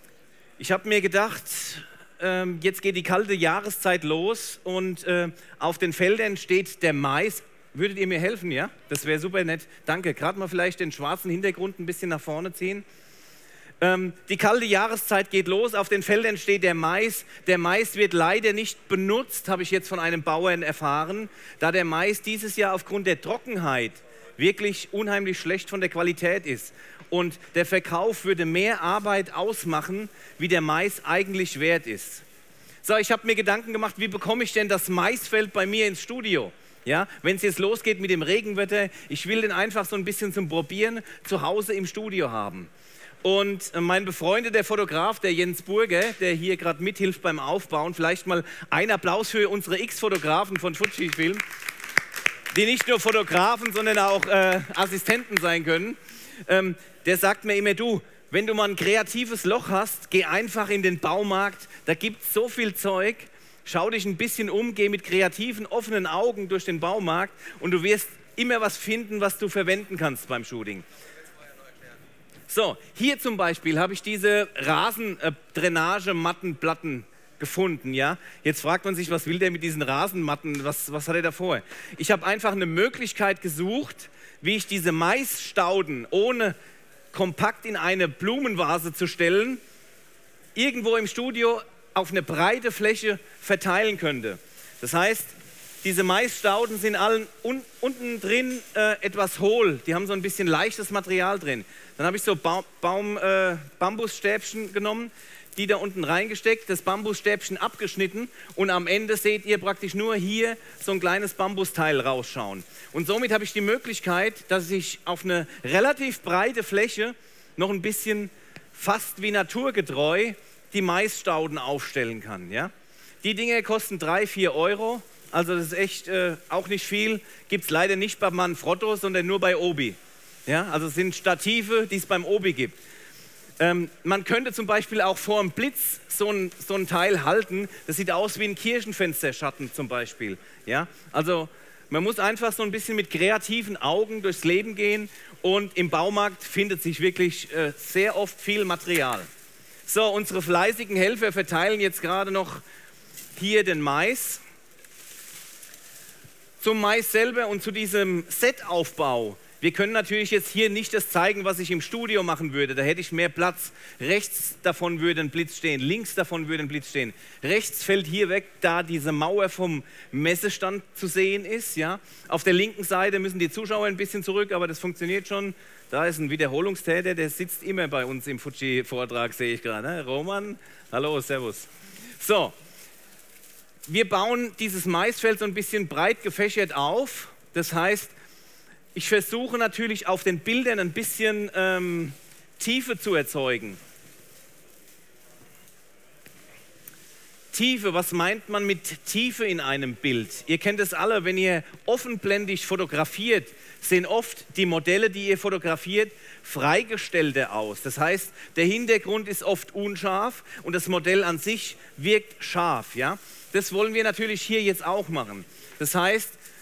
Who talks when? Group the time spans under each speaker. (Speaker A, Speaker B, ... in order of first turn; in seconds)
Speaker A: 0.6-12.8, 13.8-32.2, 32.8-42.7, 43.2-51.4, 52.5-70.8, 72.5-86.5, 87.1-89.6, 90.5-122.7, 123.2-132.8, 133.6-149.3, 149.8-152.6, 153.3-154.4, 156.6-182.5, 183.9-188.1, 188.9-193.8, 197.5-216.4